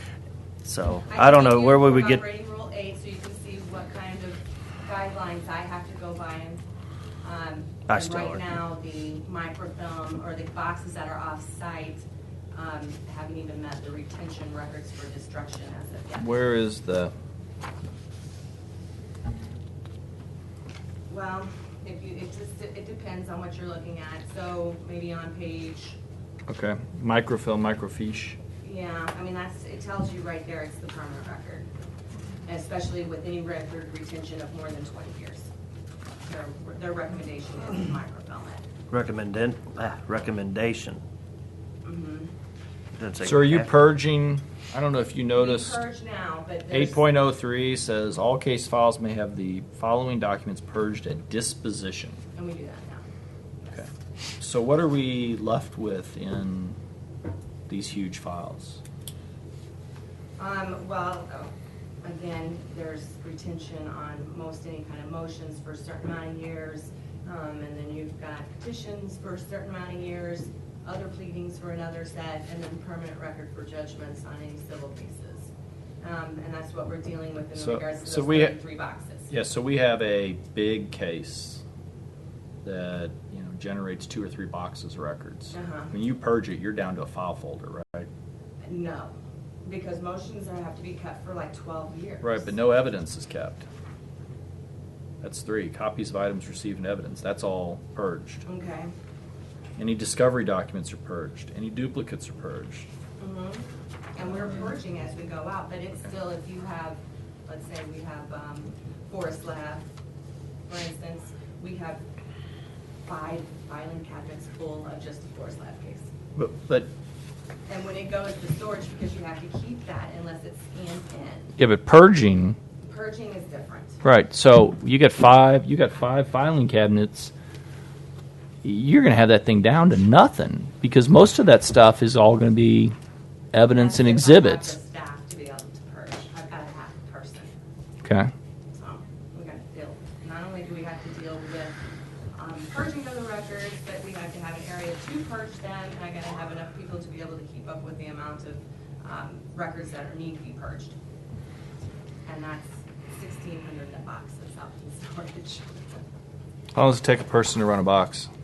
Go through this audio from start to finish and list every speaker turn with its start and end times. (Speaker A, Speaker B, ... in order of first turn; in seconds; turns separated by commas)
Speaker A: 0.6-2.2, Speaker B: 1.1-6.6, Speaker B: 7.2-16.3, Speaker A: 7.9-8.4, Speaker C: 16.2-17.1, Speaker B: 21.1-26.0, Speaker C: 26.5-28.4, Speaker B: 28.6-31.7, Speaker B: 32.5-35.5, Speaker B: 36.2-38.6, Speaker A: 38.9-41.0, Speaker B: 41.8-42.3, Speaker A: 42.9-43.7, Speaker C: 43.2-45.8, Speaker B: 45.3-47.0, Speaker C: 46.7-52.2, Speaker B: 52.3-53.0, Speaker B: 53.6-53.9, Speaker C: 54.4-56.8, Speaker C: 57.7-58.8, Speaker B: 60.4-61.5, Speaker B: 62.0-75.5, Speaker B: 76.0-79.3, Speaker C: 77.5-78.5, Speaker C: 79.3-81.6, Speaker C: 82.6-88.1, Speaker B: 85.5-85.9, Speaker B: 88.6-89.1, Speaker B: 89.6-92.5, Speaker C: 92.2-93.6, Speaker C: 95.2-98.4, Speaker B: 98.4-98.9, Speaker C: 99.8-102.9, Speaker B: 103.2-109.8, Speaker B: 110.7-112.0, Speaker B: 113.0-116.1, Speaker C: 116.3-116.9, Speaker B: 117.7-121.5, Speaker C: 121.6-122.6, Speaker B: 122.8-124.0, Speaker C: 124.0-127.3, Speaker C: 128.6-132.9, Speaker C: 133.5-134.7, Speaker B: 133.7-137.5, Speaker C: 138.0-138.3, Speaker B: 138.7-141.7, Speaker B: 142.3-150.9, Speaker B: 152.2-155.6, Speaker C: 156.7-158.3